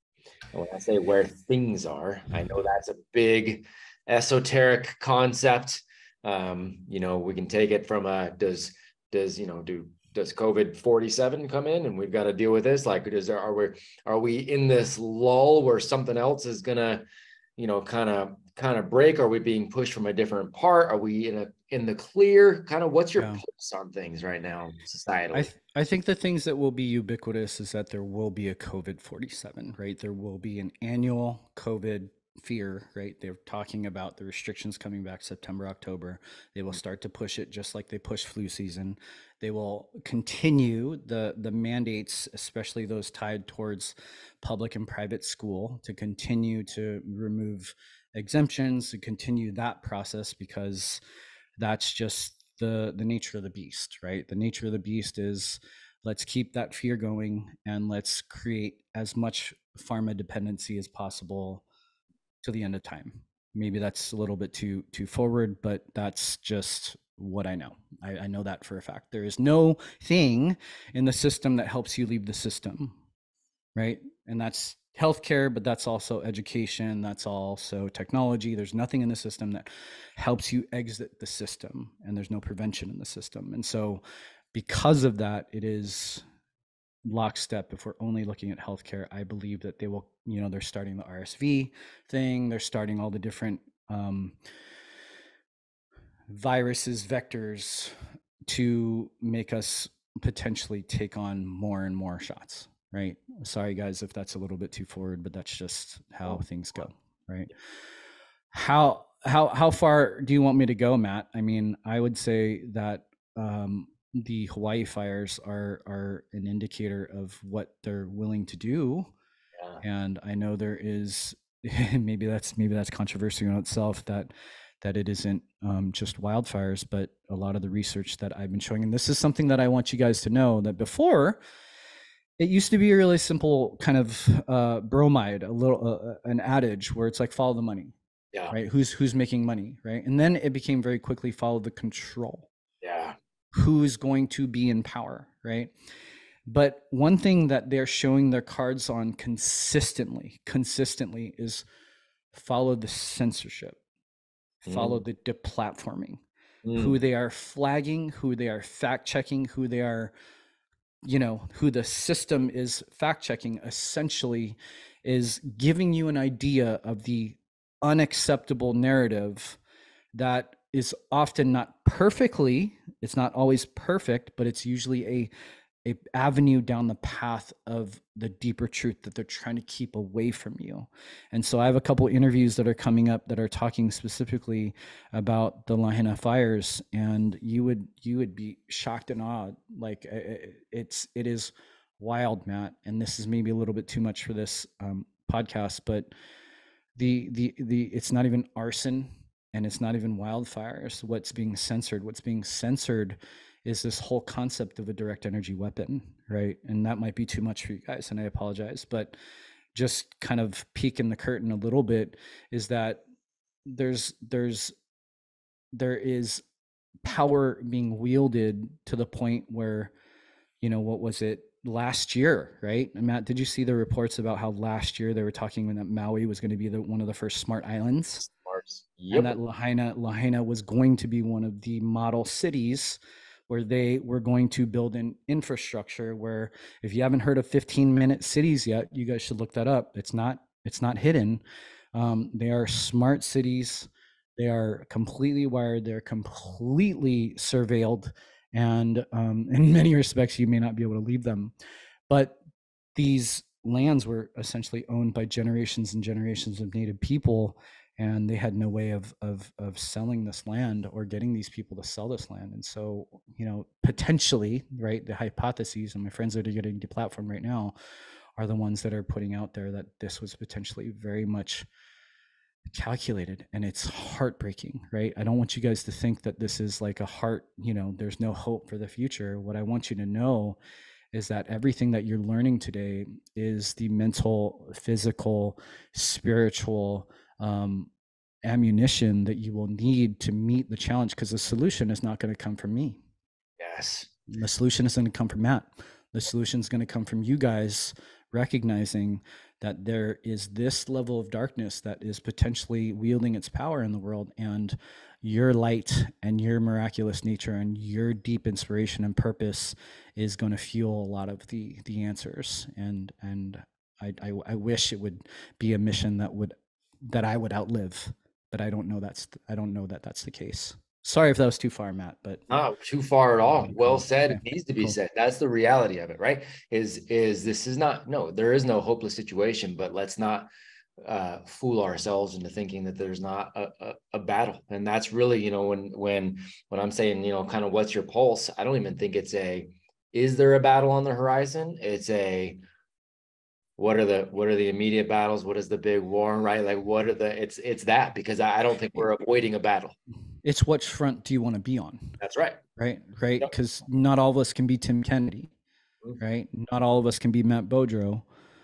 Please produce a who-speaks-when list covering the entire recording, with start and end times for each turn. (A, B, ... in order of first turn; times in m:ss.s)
0:00.5-0:17.0 A
0:17.6-0:25.5 A
0:23.2-0:23.4 B
0:25.3-0:51.0 B
0:51.6-1:01.6 B
1:02.4-1:13.0 B
1:13.8-1:26.2 B
1:27.0-1:34.4 B
1:36.3-1:37.9 B
1:38.5-1:47.5 B
1:48.5-1:59.1 B
1:59.8-2:11.4 B
2:12.4-2:17.9 B
2:18.5-2:22.5 B
2:22.8-2:23.2 A
2:23.5-2:25.7 B
2:26.4-2:31.6 B
2:32.3-2:33.8 B
2:34.6-2:36.2 B
2:34.6-2:35.0 A
2:36.6-2:37.0 A
2:36.7-2:40.1 B
2:41.1-2:49.6 B
2:50.1-2:55.3 B
2:55.8-3:16.1 B
3:17.0-3:29.1 B
3:29.7-3:33.0 B
3:33.6-3:34.7 B
3:35.7-3:36.4 B
3:37.0-3:39.9 B
3:40.6-3:48.2 B
3:48.2-3:49.3 A
3:49.1-4:01.4 B
4:01.9-4:11.5 B
4:12.1-4:12.4 B
4:13.0-4:27.7 B
4:28.4-4:31.7 B
4:32.7-4:40.6 B
4:41.1-4:47.9 B
4:48.4-4:53.0 B
4:53.6-4:54.1 A
4:54.3-5:16.5 B
5:17.0-5:22.4 B
5:22.5-5:42.6 A
5:23.6-5:25.0 B
5:43.8-5:50.0 A
5:50.4-5:52.2 B
5:52.2-5:52.6 A
5:52.8-5:55.5 B
5:56.2-5:58.2 B